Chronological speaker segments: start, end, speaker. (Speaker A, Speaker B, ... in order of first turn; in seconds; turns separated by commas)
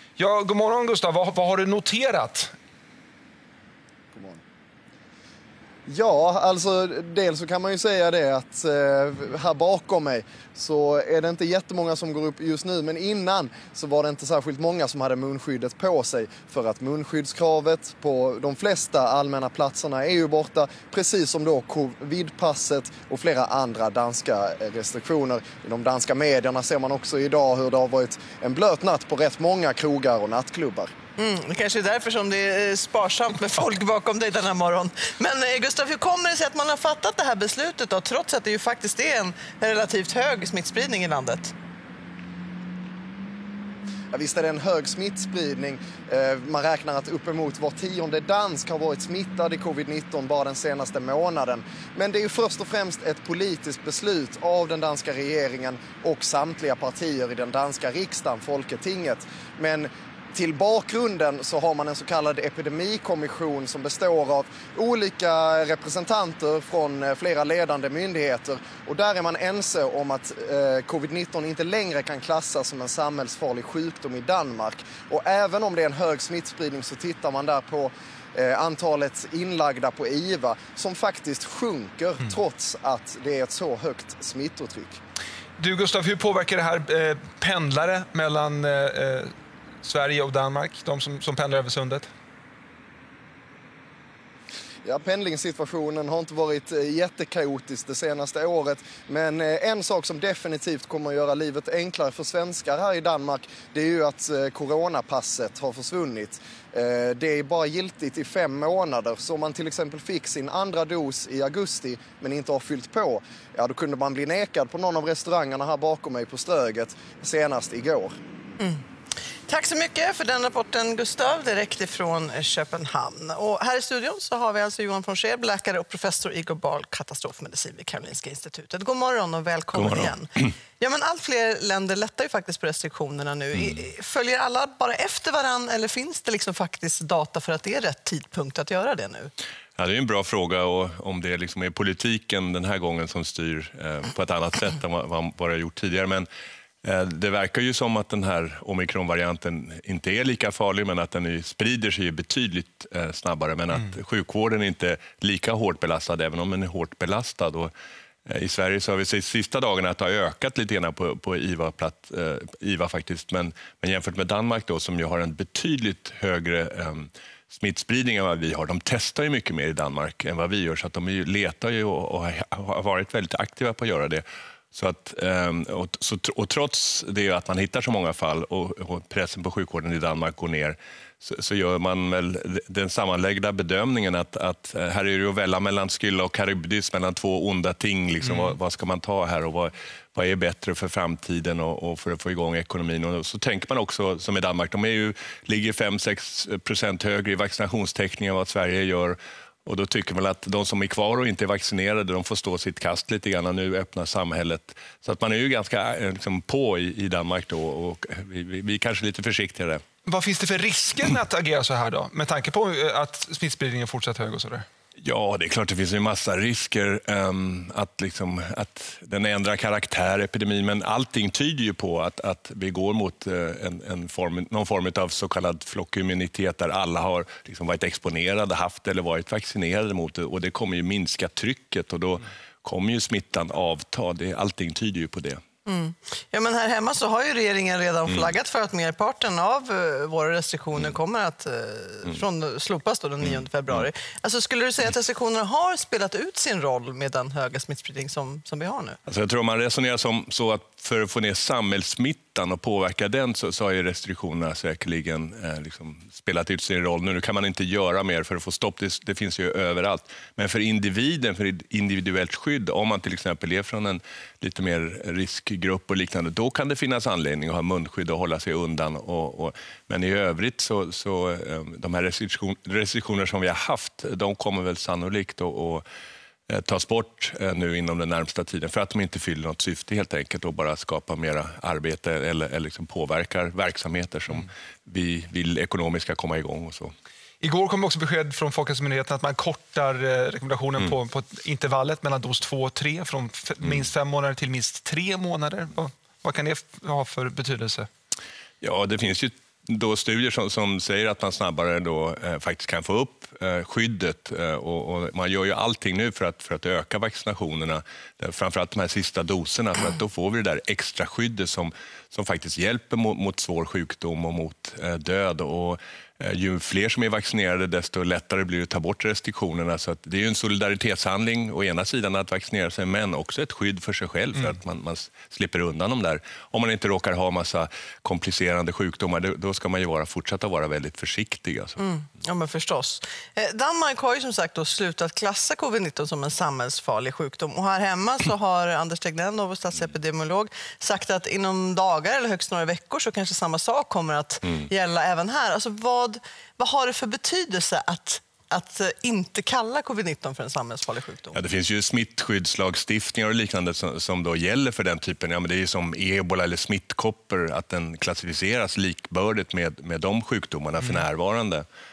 Speaker A: 0.2-2.5, Speaker B: 4.1-4.4, Speaker B: 5.9-30.9, Speaker C: 31.2-41.5, Speaker B: 44.1-85.0, Speaker A: 85.6-89.3, Speaker A: 89.8-92.1, Speaker B: 94.8-118.2, Speaker C: 119.5-139.3, Speaker D: 139.8-146.3, Speaker D: 146.8-157.7, Speaker D: 158.3-209.8, Speaker A: 210.1-214.7, Speaker D: 215.0-235.4, Speaker C: 235.7-249.0, Speaker D: 249.1-275.8, Speaker D: 276.5-286.9, Speaker A: 287.4-297.9, Speaker D: 298.6-331.8, Speaker C: 331.8-351.4, Speaker D: 351.3-361.6